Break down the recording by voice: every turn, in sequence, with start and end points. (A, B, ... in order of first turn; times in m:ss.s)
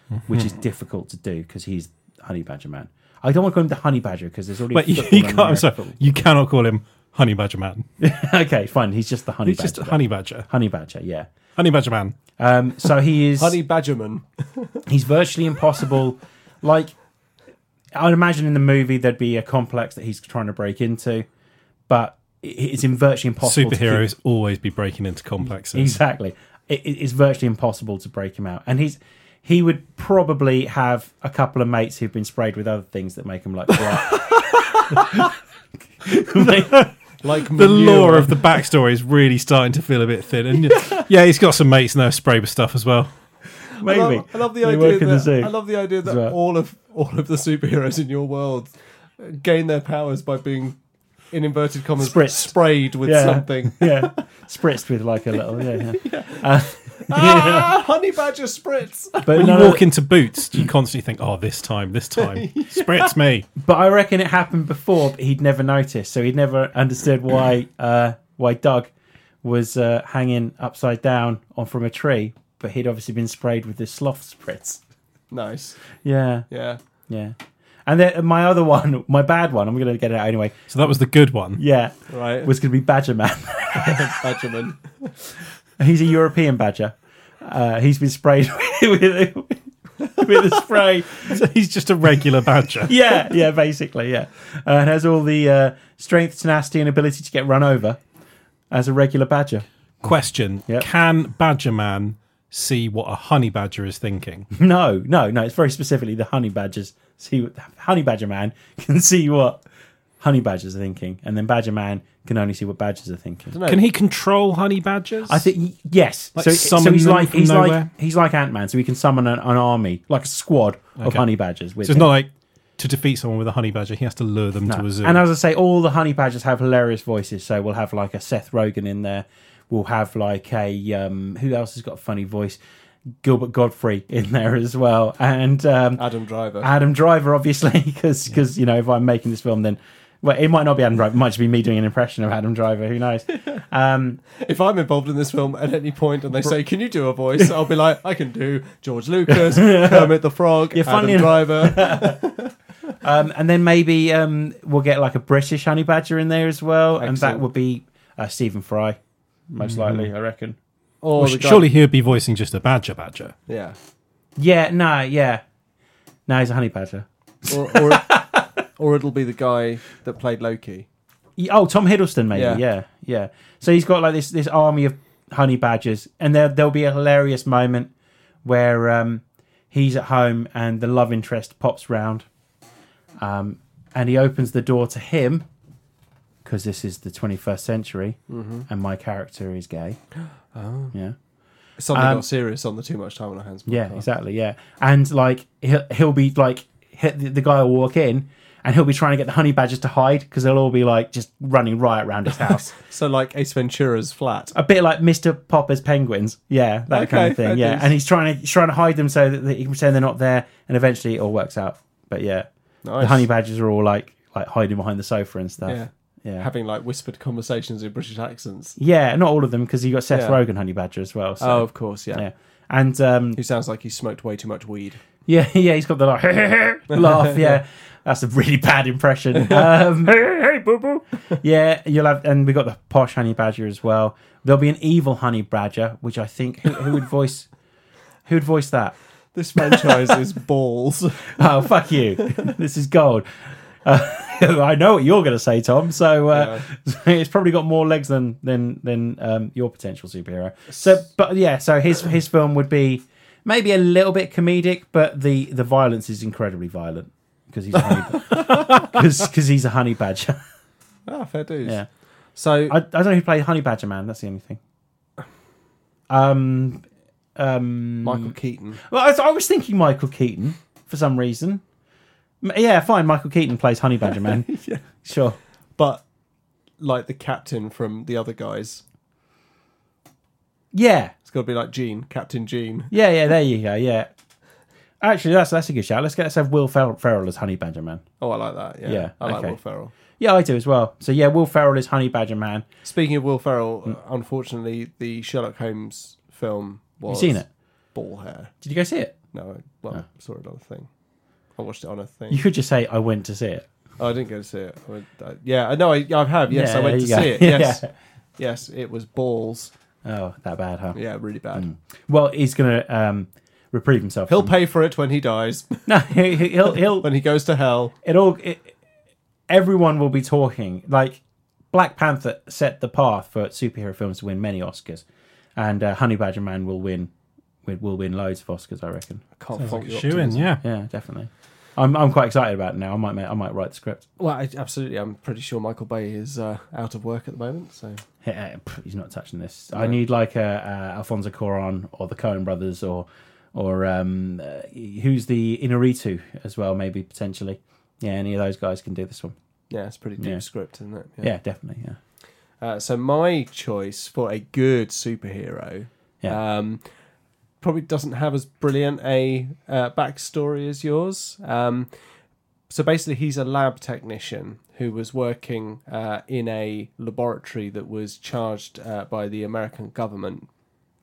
0:00.1-0:00.5 A
0:00.3-0:06.2 B
0:04.7-0:07.8 A
0:08.0-0:11.3 B
0:09.4-0:10.5 A
0:11.6-0:12.2 A
0:12.4-0:13.6 B
0:13.4-0:14.8 C
0:14.8-0:17.0 B
0:17.9-0:21.2 B
0:21.9-0:24.0 B
0:23.4-0:26.0 A
0:25.7-0:35.3 B
0:34.2-0:34.6 C
0:36.0-0:36.8 B
0:36.5-0:36.9 A
0:37.2-0:38.4 C
0:37.5-0:43.1 A
0:43.8-0:46.4 B
0:43.8-0:50.8 C
0:51.3-0:54.2 C
0:52.0-0:57.7 B
0:55.6-0:59.6 C
0:59.2-0:59.9 B
0:59.3-1:03.5 A
1:02.2-1:03.1 C
1:03.6-1:08.9 B
1:09.4-1:14.8 B
1:15.3-1:15.8 C
1:16.0-1:16.5 B
1:16.5-1:16.8 C
1:17.1-1:20.7 B
1:20.7-1:21.6 A
1:21.6-1:24.1 B
1:22.1-1:22.5 C
1:23.7-1:24.8 C
1:25.8-1:31.4 B
1:31.2-1:32.9 A
1:32.8-1:38.0 B
1:38.7-1:39.6 B
1:40.0-1:44.5 A
1:44.5-1:49.6 B
1:50.2-1:53.5 B
1:53.5-1:53.8 C
1:53.6-1:55.5 A
1:55.3-2:02.1 B
1:56.3-1:57.9 A
2:01.0-2:01.2 A
2:01.8-2:05.2 A
2:04.6-2:12.6 B
2:13.2-2:16.0 B
2:16.0-2:16.7 C
2:16.6-2:24.2 B
2:24.3-2:32.5 C
2:29.3-2:30.1 B
2:30.7-2:32.2 B
2:33.0-2:39.0 B
2:37.0-2:37.4 C
2:39.5-2:40.6 B
2:39.6-2:40.0 A
2:41.0-2:41.7 C
2:41.2-2:43.4 A
2:43.5-2:43.8 C
2:44.4-2:45.4 B
2:46.3-2:48.5 B
2:47.5-2:50.9 C
2:51.4-2:57.9 B
2:52.3-2:52.6 C
2:58.4-3:02.3 B
3:03.2-3:05.5 B
3:06.4-3:10.0 B
3:08.3-3:08.6 C
3:10.5-3:10.9 C
3:11.8-3:14.1 C
3:11.9-3:12.2 B
3:13.7-3:22.7 B
3:22.7-3:24.5 C
3:24.5-3:32.5 B
3:26.9-3:27.9 C
3:32.8-3:33.3 C
3:33.0-3:36.5 B
3:35.6-3:38.8 C
3:38.8-3:43.4 B
3:40.1-3:40.4 C
3:41.4-3:42.2 C
3:43.4-3:45.0 C
3:45.2-3:50.6 B
3:46.9-3:47.4 C
3:49.4-3:49.7 C
3:51.3-3:57.5 B
3:58.2-3:59.0 B
3:59.3-4:01.4 C
3:59.6-3:59.9 B
4:01.2-4:03.3 B
4:03.8-4:20.4 B
4:06.3-4:06.6 C
4:18.3-4:18.8 C
4:21.1-4:21.8 C
4:22.3-4:22.8 C
4:22.7-4:24.6 B
4:26.1-4:31.6 B
4:28.0-4:28.8 C
4:32.4-4:35.4 B
4:34.5-4:34.8 C
4:35.8-4:36.0 C
4:36.8-4:38.8 C
4:40.7-4:41.1 B
4:41.2-4:42.9 C
4:42.9-4:44.1 B
4:45.0-4:48.0 B
4:48.2-4:49.9 C
4:48.8-4:49.6 B
4:50.2-4:52.6 B
4:52.8-4:57.4 C
4:57.1-4:57.5 B
4:57.9-4:58.5 C
4:58.6-4:59.2 B
4:59.3-5:00.9 C
5:01.6-5:02.4 C
5:02.3-5:03.7 B
5:04.0-5:07.8 C
5:06.5-5:07.9 B
5:08.4-5:09.7 C
5:10.0-5:11.0 B
5:10.9-5:11.7 C
5:11.5-5:14.5 B
5:14.3-5:15.9 C
5:15.9-5:17.1 B
5:16.6-5:17.9 C
5:18.0-5:18.8 B
5:19.5-5:21.2 B
5:21.7-5:25.0 B
5:25.6-5:27.1 B
5:27.6-5:29.2 B
5:29.4-5:30.6 C
5:29.6-5:30.6 A
5:30.6-5:34.1 B
5:34.2-5:38.0 C
5:38.2-5:49.3 B
5:49.7-5:51.3 C
5:51.2-5:52.0 B
5:52.6-5:56.8 C
5:57.6-6:01.9 C
6:02.7-6:10.5 C